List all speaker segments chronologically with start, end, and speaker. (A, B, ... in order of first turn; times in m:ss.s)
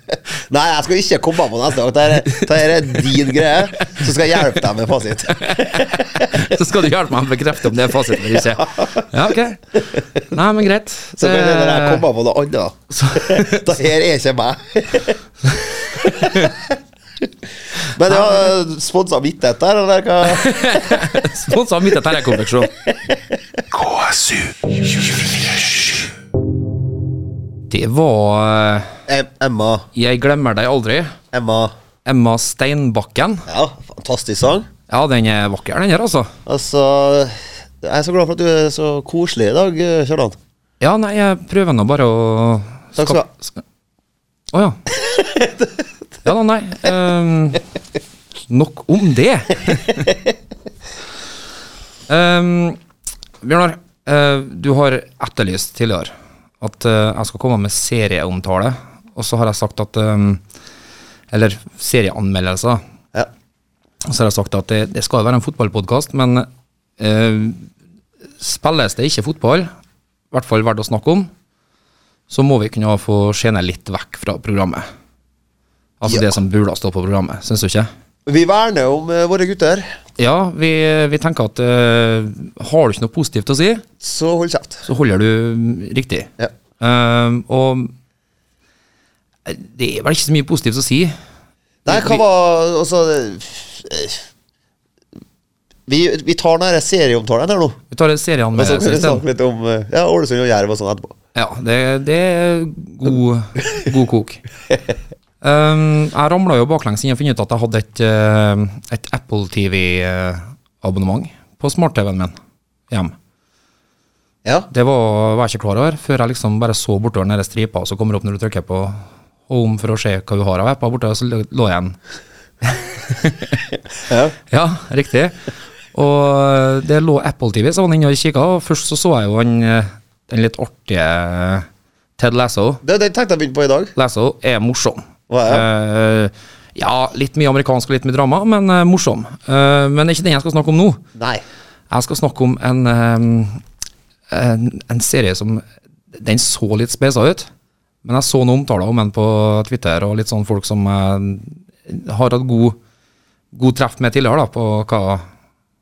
0:00.5-0:06.5 A
0:02.9-0:04.0 B
0:05.3-0:12.0 B
0:08.1-0:09.0 A
0:11.2-0:15.2 A
0:12.9-0:13.8 B
0:15.6-0:16.5 B
0:15.9-0:16.8 A
0:17.9-0:21.1 A
0:20.2-0:22.8 B
0:22.9-0:23.6 A
0:27.7-0:28.9 B
0:29.1-0:29.9 A
0:30.0-0:31.2 B
0:31.3-0:31.7 A
0:32.0-0:33.5 B
0:33.5-0:34.7 A
0:34.9-0:36.3 B
0:36.5-0:40.4 A
0:40.8-0:43.4 B
0:43.0-0:43.3 A
0:44.5-0:44.8 B
0:45.0-0:45.7 A
0:46.2-0:47.6 B
0:48.5-0:50.1 B
0:52.1-0:52.8 B
0:53.4-1:00.4 B
1:01.3-1:02.8 B
1:04.0-1:06.5 B
1:07.0-1:07.7 B
1:08.4-1:09.7 B
1:10.3-1:11.3 B
1:12.3-1:14.8 B
1:16.0-1:17.9 B
1:18.3-1:19.8 A
1:20.2-1:23.8 B
1:24.0-1:24.8 A
1:24.8-1:27.9 B
1:29.5-1:31.2 B
1:31.8-1:34.2 A
1:31.9-1:32.2 B
1:35.9-1:37.8 A
1:37.9-1:39.2 B
1:38.6-1:41.1 A
1:41.4-1:44.4 B
1:45.4-1:52.4 B
1:52.9-1:53.2 B
1:54.7-2:02.0 B
2:02.6-2:03.6 B
2:04.0-2:04.4 A
2:04.5-2:05.4 B
2:05.9-2:11.7 B
2:12.2-2:12.8 B
2:12.8-2:13.9 A
2:14.0-2:21.0 B
2:15.3-2:15.7 A
2:21.2-2:21.4 A
2:21.9-2:23.6 B
2:24.3-2:27.5 B
2:28.0-2:32.8 B
2:33.5-2:35.2 B